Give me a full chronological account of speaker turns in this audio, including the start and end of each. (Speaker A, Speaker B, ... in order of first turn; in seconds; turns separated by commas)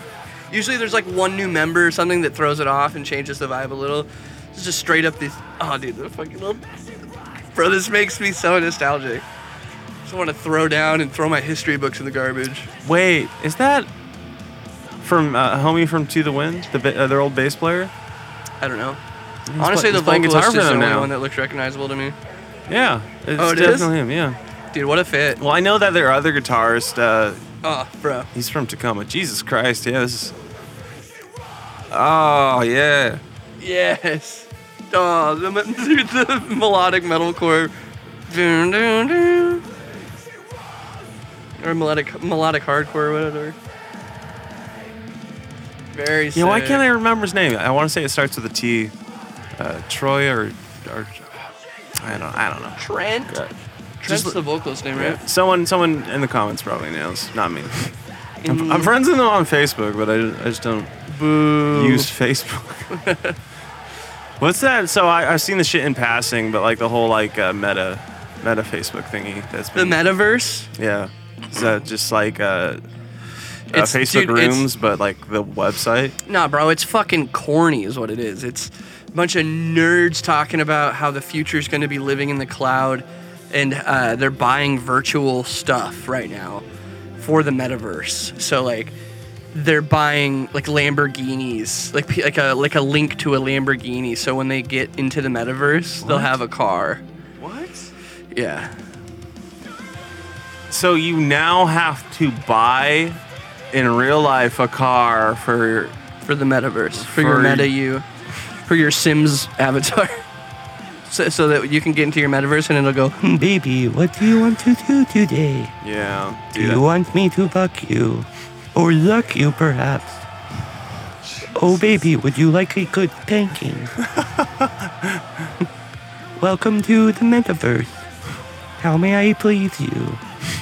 Speaker A: 0.5-6.7, Speaker A: 7.5-9.3, Speaker A: 10.0-12.7, Speaker B: 12.8-13.9, Speaker B: 15.0-17.9, Speaker A: 18.6-19.0, Speaker B: 19.5-21.1, Speaker A: 19.6-22.2, Speaker B: 22.7-24.4, Speaker A: 23.4-23.9, Speaker A: 24.7-25.4, Speaker B: 25.4-27.4, Speaker A: 27.6-28.3, Speaker B: 28.3-30.3, Speaker B: 31.9-33.2, Speaker A: 33.6-37.7, Speaker A: 38.3-39.6, Speaker A: 41.6-43.6, Speaker A: 45.9-46.9, Speaker B: 46.4-48.9, Speaker B: 49.6-51.5, Speaker B: 52.0-54.4, Speaker A: 52.8-53.4, Speaker A: 54.0-55.2, Speaker B: 54.9-58.0, Speaker A: 58.4-58.9, Speaker B: 58.5-61.0, Speaker A: 61.1-62.1, Speaker B: 61.7-63.0, Speaker A: 62.9-63.4, Speaker B: 64.4-70.0, Speaker A: 69.8-70.7, Speaker B: 70.7-72.8, Speaker A: 73.7-74.7, Speaker B: 73.7-76.2, Speaker A: 76.2-86.7, Speaker A: 87.2-89.0, Speaker A: 89.5-97.0, Speaker B: 96.0-96.4, Speaker B: 97.4-97.9, Speaker A: 98.3-98.8, Speaker B: 100.7-103.2, Speaker B: 103.7-106.0, Speaker A: 106.2-108.1, Speaker B: 106.9-107.7, Speaker A: 108.7-110.2, Speaker A: 111.1-113.3, Speaker C: 113.2-115.7, Speaker B: 115.8-116.8, Speaker C: 116.5-120.3, Speaker B: 121.2-121.8, Speaker C: 121.5-124.0, Speaker B: 124.0-125.5, Speaker C: 126.4-128.0, Speaker C: 128.8-130.2